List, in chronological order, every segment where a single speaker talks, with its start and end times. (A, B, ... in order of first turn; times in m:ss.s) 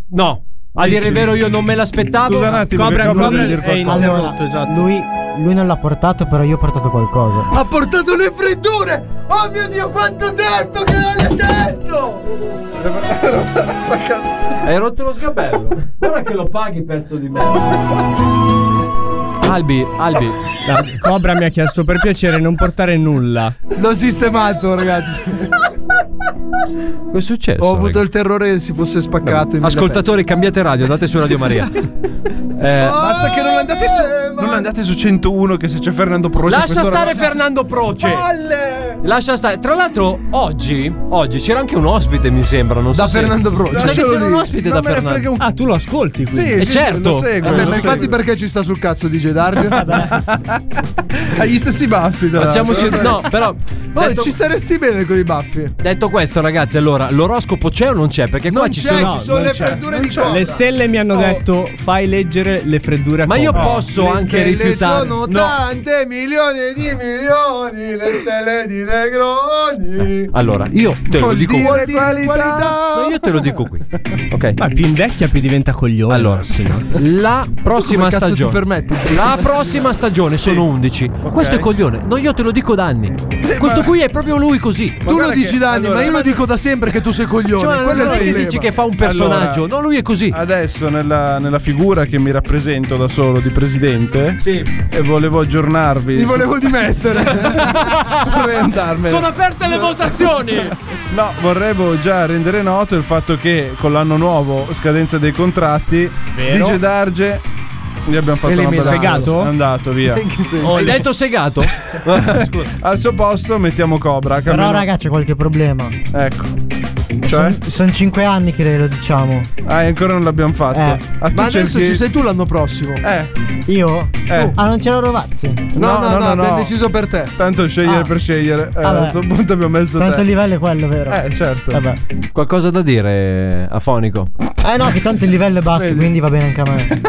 0:00.1-0:03.0 A
0:00.8-0:01.4 B
0:02.2-0:04.2 B
0:02.7-0:04.9 C
0:03.1-0:07.5 D
0:07.5-0:12.2 E
0:12.8-0:14.2 B
0:14.6-0:17.8 A
0:19.4-0:20.4 A
0:20.6-0:23.5 C
0:23.7-0:25.6 E
0:27.1-0:28.0 A
0:27.6-0:30.1 E
0:29.3-0:31.9 A
0:32.6-0:33.0 A
0:32.7-0:34.7 E
0:33.0-0:37.3 B
0:36.4-0:38.2 A
0:38.0-0:39.0 B
0:39.0-0:45.3 A
0:42.9-0:44.3 E
0:43.7-0:45.4 B
0:45.4-0:46.6 C
0:46.3-0:48.2 B
0:46.6-0:48.0 A
0:47.4-0:49.9 E
0:49.7-0:50.6 B
0:51.2-0:53.2 B
0:52.3-0:54.3 A
0:52.7-0:53.1 E
0:53.9-0:55.7 E
0:55.8-0:59.2 A
0:58.5-1:00.6 E
0:58.9-0:59.5 C
0:59.3-1:00.4 B
1:00.2-1:03.8 C
1:03.2-1:05.3 A
1:03.5-1:03.8 B
1:03.9-1:10.3 E
1:10.3-1:12.1 A
1:11.1-1:12.8 B
1:11.1-1:13.2 E
1:12.9-1:14.6 A
1:14.6-1:16.9 C
1:16.1-1:25.0 A
1:17.7-1:19.8 E
1:20.3-1:20.6 B
1:21.2-1:21.7 B
1:23.4-1:23.9 B
1:25.0-1:26.4 B
1:25.0-1:28.7 E
1:27.6-1:30.4 A
1:27.8-1:29.7 B
1:30.3-1:36.6 B
1:34.4-1:34.7 A
1:36.1-1:37.9 E
1:37.2-1:47.4 B
1:37.5-1:38.4 A
1:39.1-1:40.7 A
1:46.3-1:46.8 C
1:48.0-1:50.2 B
1:48.4-1:49.3 E
1:48.8-1:49.5 C
1:50.0-1:51.0 E
1:50.7-1:52.7 A
1:50.7-1:51.0 C
1:52.1-1:54.9 B
1:54.4-1:56.0 D
1:56.1-1:56.5 B
1:57.2-1:59.5 D
1:57.2-1:57.6 B
1:59.6-2:02.0 B
2:00.7-2:01.0 D
2:01.3-2:03.0 E
2:03.0-2:03.3 B
2:03.7-2:05.7 D
2:04.3-2:04.6 B
2:05.7-2:06.7 B
2:05.7-2:07.3 E
2:07.4-2:10.3 B
2:07.8-2:08.1 D
2:08.8-2:09.2 D
2:10.0-2:12.0 D
2:11.1-2:11.8 B
2:12.3-2:14.3 A
2:14.6-2:16.9 D
2:15.7-2:16.1 B